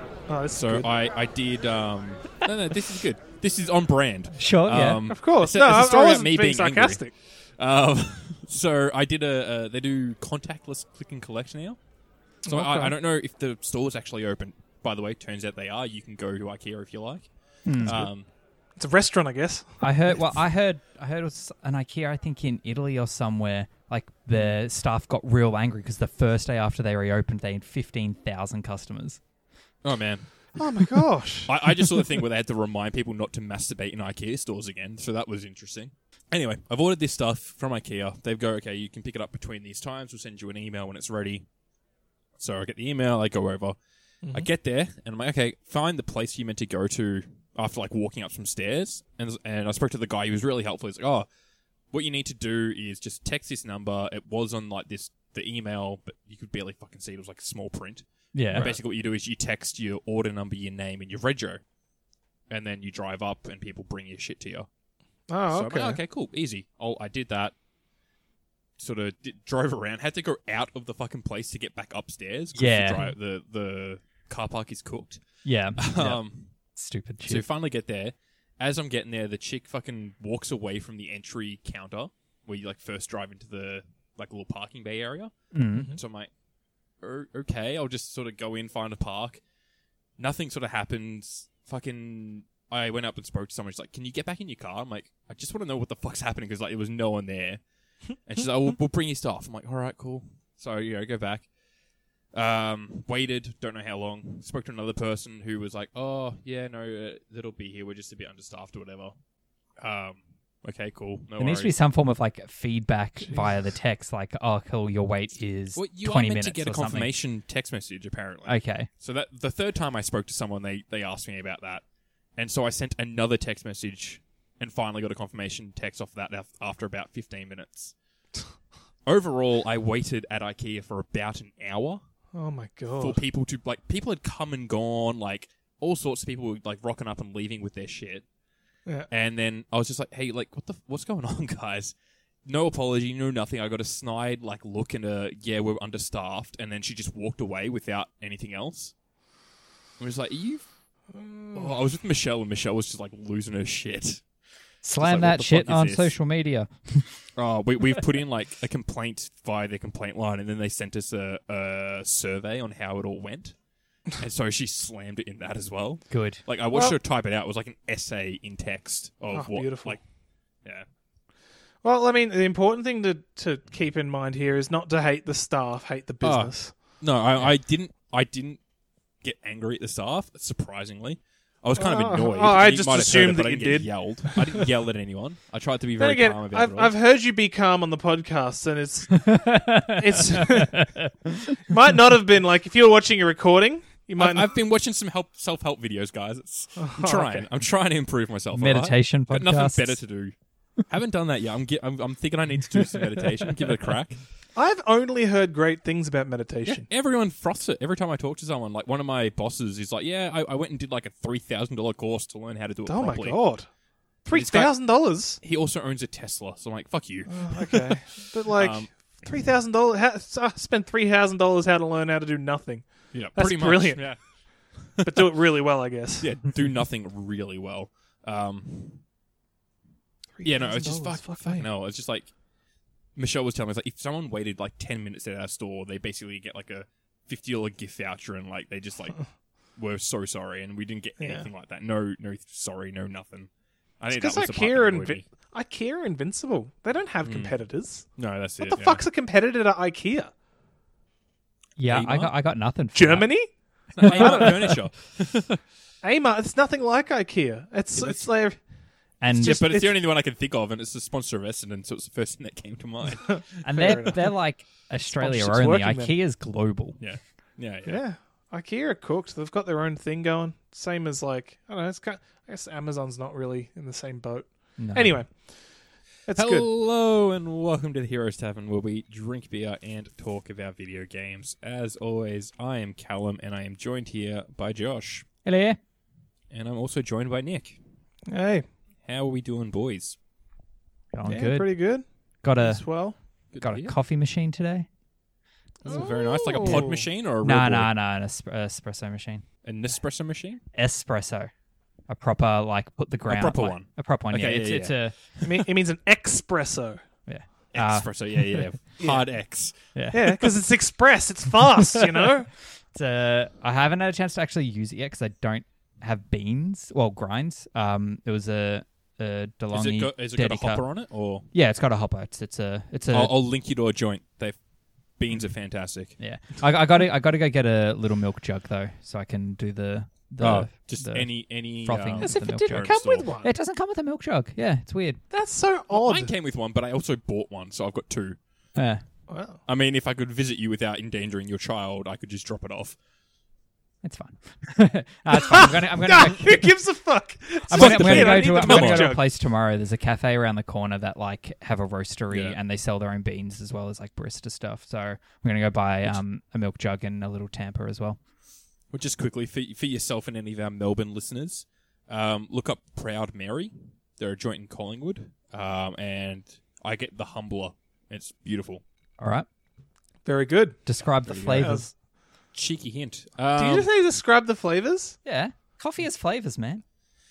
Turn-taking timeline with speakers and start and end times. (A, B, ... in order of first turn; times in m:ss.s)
0:00.3-0:00.9 A
0:00.5-0:11.8 B
0:04.4-0:05.0 C
0:05.1-0:07.1 A
0:12.4-0:12.9 A
0:12.5-0:18.3 B
0:17.6-0:18.0 C
0:17.8-0:18.1 A
0:18.8-0:20.4 A
0:19.8-0:29.2 C
0:29.8-0:30.6 B
0:30.6-0:31.5 A
0:31.4-0:41.5 B
0:42.4-0:51.3 B
0:44.2-0:44.5 A
0:51.9-1:01.6 B
0:58.3-0:58.7 C
1:02.5-1:04.7 B
1:05.3-1:06.0 A
1:05.5-1:07.6 B
1:08.8-1:16.6 B
1:12.6-1:13.1 C
1:15.4-1:17.5 C
1:17.3-1:26.3 B
1:25.5-1:25.9 C
1:27.0-1:29.4 B
1:30.2-1:41.5 B
1:42.3-1:49.2 B
1:49.8-1:51.7 B
1:51.4-1:57.1 C
1:55.8-2:01.8 B
1:58.5-1:58.9 C
2:02.4-2:08.0 B
2:09.0-2:12.0 B
2:12.3-2:13.2 A
2:13.0-2:18.3 B
2:19.1-2:29.0 B
2:30.0-2:30.7 B
2:31.1-2:31.8 A
2:31.5-2:34.4 B
2:34.8-2:37.3 C
2:35.0-2:36.1 B
2:37.4-2:50.0 B
2:46.1-2:46.4 C
2:49.3-2:50.0 A
2:51.8-2:57.0 A
2:56.2-2:58.6 B
2:59.2-3:06.9 B
3:01.8-3:04.5 A
3:06.0-3:10.9 A
3:09.2-3:11.4 C
3:11.6-3:14.5 A
3:14.2-3:20.4 B
3:16.8-3:17.5 A
3:18.5-3:20.0 C
3:20.9-3:24.2 B
3:24.6-3:26.9 A
3:26.7-3:33.4 B
3:32.9-3:33.7 A
3:34.2-3:35.4 A
3:34.3-3:39.2 B
3:37.3-3:44.4 A
3:43.1-3:45.3 B
3:45.0-3:46.3 A
3:46.2-3:49.0 B
3:50.4-3:51.7 A
3:50.4-3:52.4 B
3:53.2-4:05.3 B
4:01.2-4:01.5 A
4:04.1-4:10.3 A
4:07.2-4:09.0 B
4:11.8-4:14.6 C
4:11.9-4:12.3 B
4:12.9-4:14.8 A
4:13.9-4:15.6 B
4:16.0-4:19.9 A
4:17.9-4:18.3 B
4:19.2-4:19.7 C
4:19.3-4:23.6 B
4:23.3-4:24.4 A
4:23.6-4:27.0 C
4:25.1-4:26.1 A
4:27.0-4:28.0 B
4:27.9-4:35.7 A
4:34.8-4:35.2 C
4:36.2-4:36.7 A
4:36.3-4:45.3 B
4:45.4-4:45.8 C
4:46.5-4:47.8 B
4:48.3-4:48.7 A
4:49.0-4:50.2 B
4:51.1-4:54.9 C
4:51.3-4:52.0 A
4:52.6-4:53.2 A
4:53.5-4:53.9 B
4:55.8-4:57.9 B
4:55.8-4:57.1 A
4:57.4-4:59.4 C
4:59.6-5:00.6 B
5:00.7-5:01.5 C
5:02.1-5:05.2 C
5:03.3-5:05.0 B
5:05.4-5:07.0 A
5:07.3-5:08.7 C
5:07.7-5:09.8 B
5:09.0-5:09.2 A
5:10.0-5:10.5 C
5:10.1-5:12.5 A
5:12.9-5:23.4 C
5:19.7-5:21.5 B
5:23.1-5:24.6 B
5:25.2-5:26.2 B
5:26.2-5:35.2 C
5:30.4-5:33.3 B
5:32.2-5:33.5 A
5:35.3-5:36.3 A
5:35.9-5:38.4 B
5:38.8-5:39.0 C
5:39.3-5:39.6 A
5:39.7-5:43.0 B
5:44.0-5:46.8 C
5:45.4-5:49.3 A
5:47.7-5:58.2 C
5:47.7-5:49.1 B
5:52.3-5:52.6 B
5:58.9-6:08.8 B
6:09.2-6:09.5 C
6:10.2-6:11.9 A
6:10.9-6:11.8 C
6:11.3-6:11.8 B
6:12.5-6:13.9 B
6:13.6-6:15.2 A
6:15.2-6:16.8 C